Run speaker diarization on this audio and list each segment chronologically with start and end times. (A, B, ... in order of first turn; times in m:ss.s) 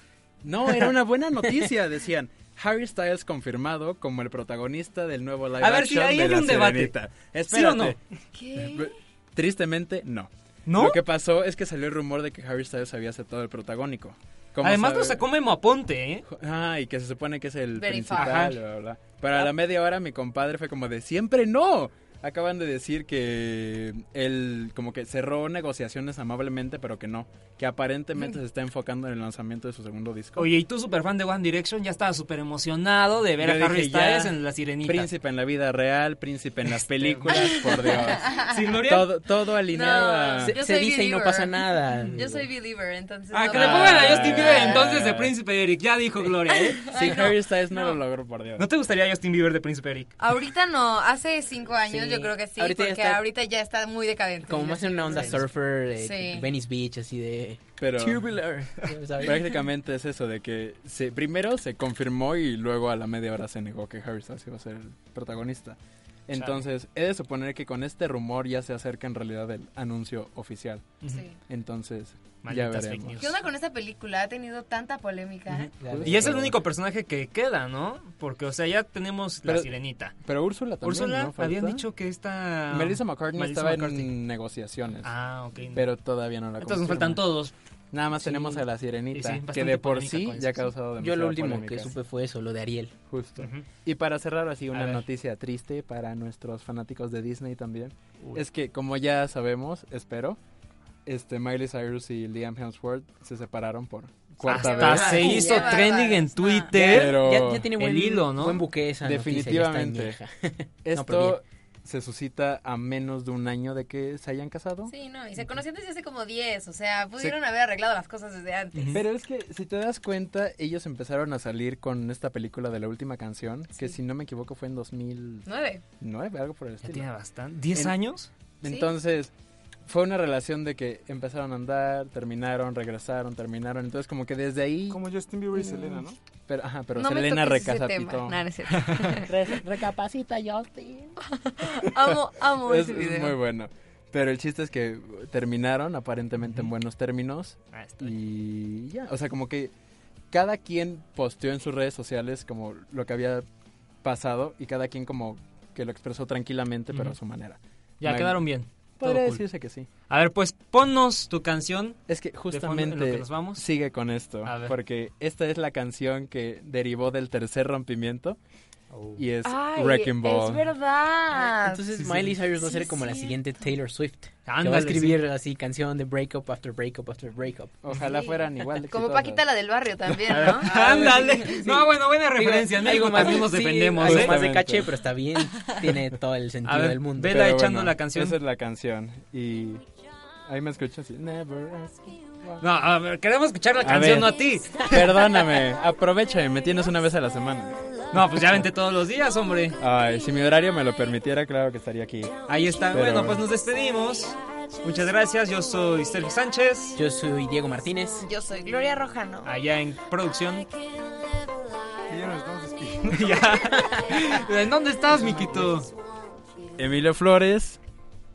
0:00.4-0:08.0 A
0:05.6-0:07.0 B
0:07.5-0:08.0 B
0:08.4-0:08.9 C
0:08.6-0:15.3 A
0:10.7-0:11.0 B
0:14.6-0:16.3 B
0:16.3-0:30.5 A
0:17.8-0:18.5 C
0:18.1-0:18.6 B
0:30.4-0:35.1 B
0:33.4-0:40.6 A
0:37.0-0:37.6 B
0:37.4-0:37.6 C
0:38.2-0:38.5 C
0:38.3-0:39.1 B
0:39.7-0:44.8 C
0:40.4-0:42.5 D
0:43.3-0:47.1 B
0:43.5-0:45.4 A
0:46.9-0:48.0 C
0:46.9-0:48.7 A
0:48.6-0:50.1 B
0:50.2-0:56.5 C
0:51.8-0:53.3 D
0:54.4-0:59.6 D
0:55.1-0:55.4 B
0:57.8-1:13.2 A
1:06.3-1:06.6 B
1:11.1-1:11.4 C
1:12.4-1:13.3 B
1:13.2-1:15.7 C
1:15.8-1:16.6 D
1:15.8-1:16.6 A
1:16.0-1:20.2 B
1:19.4-1:21.8 A
1:20.8-1:24.1 B
1:22.7-1:25.1 A
1:25.0-1:25.9 B
1:25.7-1:32.0 A
1:26.6-1:27.5 B
1:28.2-1:28.6 D
1:29.1-1:30.7 B
1:31.0-1:33.0 D
1:33.1-1:40.4 A
1:33.4-1:33.7 B
1:34.7-1:35.0 B
1:41.1-1:45.8 A
1:44.4-1:46.7 C
1:44.4-1:48.6 B
1:46.7-1:47.7 A
1:46.9-1:51.4 D
1:49.0-1:50.2 A
1:50.8-1:54.9 A
1:54.9-1:59.0 C
1:58.9-2:05.5 A
2:05.4-2:05.8 C
2:06.0-2:07.1 A
2:06.8-2:08.3 B
2:08.6-2:09.3 A
2:09.9-2:15.0 A
2:14.9-2:16.2 E
2:16.5-2:19.1 A
2:17.0-2:19.3 C
2:19.2-2:21.2 D
2:21.2-2:23.4 C
2:22.6-2:29.7 A
2:27.7-2:28.1 B
2:30.3-2:33.4 A
2:34.0-2:38.4 A
2:38.0-2:39.4 B
2:39.0-2:39.9 A
2:40.1-2:43.6 B
2:42.1-2:48.4 A
2:44.4-2:44.7 B
2:48.9-2:49.2 B
2:49.2-2:50.7 A
2:49.4-2:53.5 C
2:51.3-2:57.9 D
2:52.0-2:52.3 B
2:54.5-2:55.2 B
2:57.8-2:59.4 A
2:58.0-3:01.7 C
3:00.3-3:04.4 B
3:01.4-3:01.8 D
3:02.4-3:07.5 D
3:04.0-3:04.9 A
3:06.6-3:08.4 B
3:07.2-3:09.8 A
3:10.5-3:12.6 A
3:12.6-3:14.9 B
3:13.8-3:17.9 A
3:18.1-3:19.8 B
3:18.4-3:18.7 A
3:19.8-3:23.5 A
3:22.4-3:27.0 B
3:27.0-3:28.3 D
3:28.2-3:29.5 C
3:29.4-3:30.7 B
3:32.1-3:33.3 E
3:33.1-3:35.9 B
3:36.8-3:37.8 A